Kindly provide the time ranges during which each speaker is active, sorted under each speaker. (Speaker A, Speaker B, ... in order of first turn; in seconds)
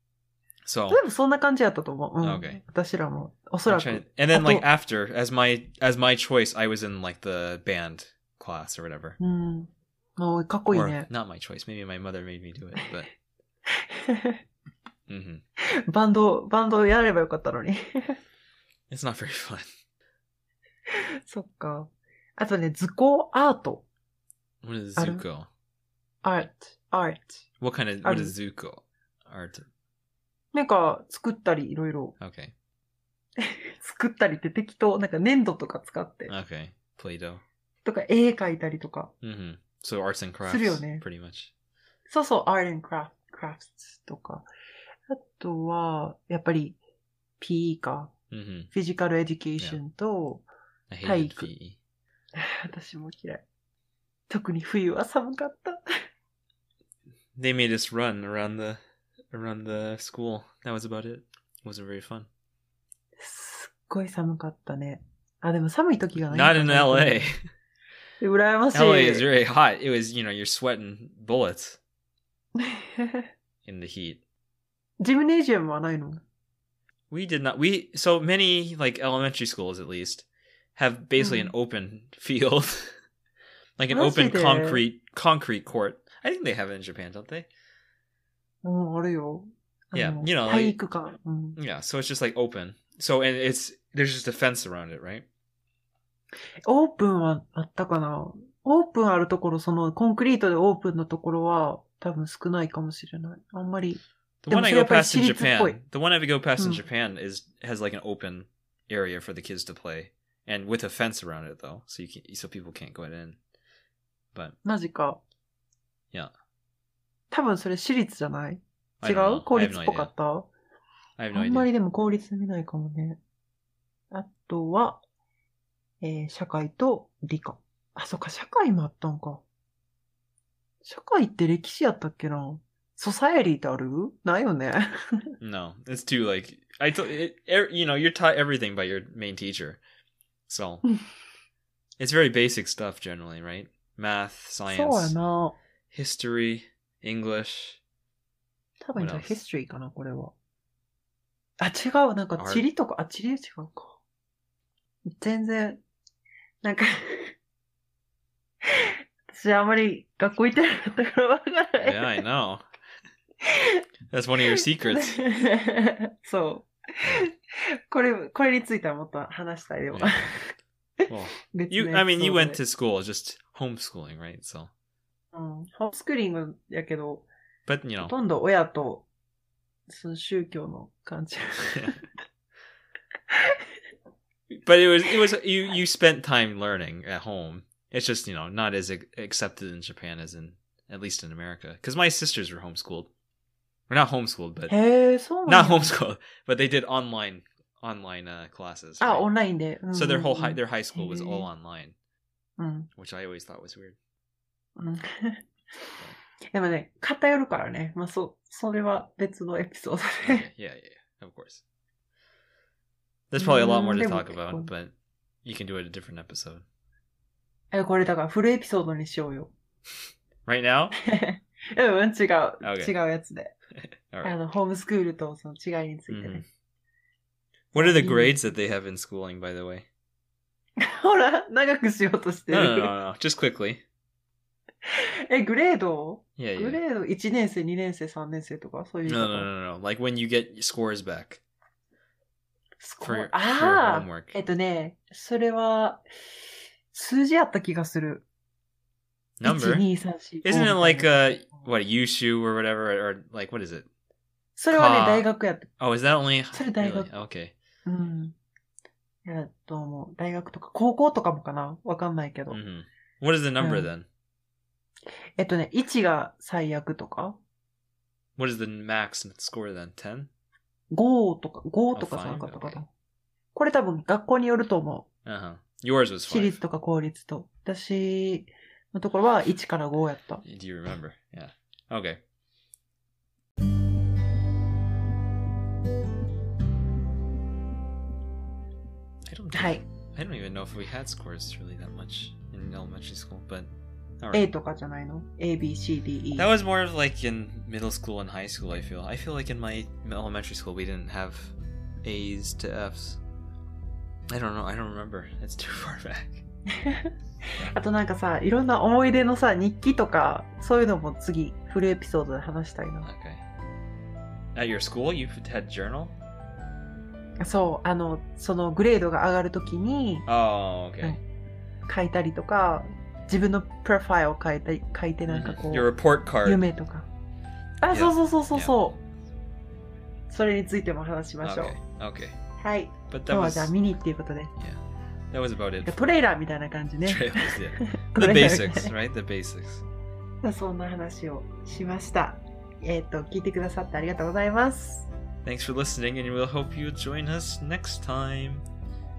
Speaker A: 0.6-1.0, 2.2-2.6, 3.7-9.2, 10.7-13.1, 15.1-15.4, 18.9-19.7, 24.6-25.5, 27.6-29.7, 32.2-32.5, 36.3-37.4, 39.2-41.5, 48.3-48.7, 50.9-51.8, 57.4-58.8, 59.3-62.3, 66.2-67.4, 68.7-71.8, 73.6-74.2, 77.1-82.9, 83.8-87.5, 89.9-90.8, 91.5-95.2, 104.4-113.4, 119.0-120.1, 121.2-121.7, 135.4-139.8, 140.5-140.8, 142.0-145.2, 145.9-147.8, 148.9-149.4, 152.4-152.6, 161.8-162.6, 164.1-165.2, 169.9-170.4, 171.1-174.7, 177.7-178.1, 184.5-193.1, 193.9-194.7, 195.4-199.3, 199.9-201.9, 203.0-204.0, 210.2-211.6, 213.3-214.9, 215.4-216.6, 220.4-220.9, 222.6-222.9, 224.1-224.3, 226.1-226.4, 227.7-229.9, 232.5-233.8, 236.4-236.8, 239.1-241.4, 243.0-244.3, 249.4-249.9, 250.4-253.8, 254.7-255.3, 255.8-257.5, 262.5-264.1, 268.4-270.3, 271.9-272.8, 275.2-276.6, 280.4-282.2, 289.3-294.4, 296.4-303.2, 304.3-306.4, 313.0-313.4, 314.5-316.1, 320.3-321.2, 325.3-326.6, 327.9-328.8, 331.4-332.4, 333.1-333.7, 334.6-336.1, 337.0-339.8, 345.4-348.6
Speaker B: 0.9-4.7, 9.2-11.1, 13.7-14.4, 15.9-18.2, 20.9-23.8, 25.0-25.2, 26.2-27.4, 28.0-28.3, 30.5-32.1, 33.4-36.3, 37.8-39.1, 40.5-41.0, 42.1-44.5, 45.1-46.8, 47.4-48.1, 48.7-50.5, 51.0-51.5, 52.3-53.4, 54.3-55.8, 63.2-67.3, 68.2-69.3, 72.6-73.3, 75.0-76.2, 81.2-81.5, 83.9-84.8, 88.6-91.6, 96.6-105.8, 106.6-106.8, 114.6-115.2, 117.3-120.5, 121.3-123.2, 124.1-125.0, 126.0-129.4, 130.8-135.3, 144.7-145.6, 148.8-150.3, 151.6-154.0, 155.2-155.8, 156.6-157.3, 158.8-162.2, 163.4-163.8, 164.5-167.3, 167.9-170.5, 171.5-172.6, 175.3-177.3, 178.0-179.0, 179.9-182.0, 183.3-183.6, 194.7-195.9, 199.0-201.4, 202.6-202.9, 204.8-206.0, 206.5-210.4, 213.4-214.7, 217.7-219.5, 221.1-223.5, 224.2-226.4, 227.7-228.4, 230.8-232.9, 234.8-239.5, 242.8-246.0, 246.9-248.2, 249.4-251.6, 254.6-255.7, 256.5-257.1, 257.9-258.3, 259.2-262.6, 263.6-263.9, 265.4-267.4, 270.9-272.9, 273.5-275.1, 276.3-280.4, 289.5-289.8, 294.3-296.5, 306.8-313.1, 317.4-320.3, 321.9-325.9, 326.4-327.1, 327.8-329.0, 330.3-331.8, 332.6-334.5, 335.8-338.9, 340.4-345.1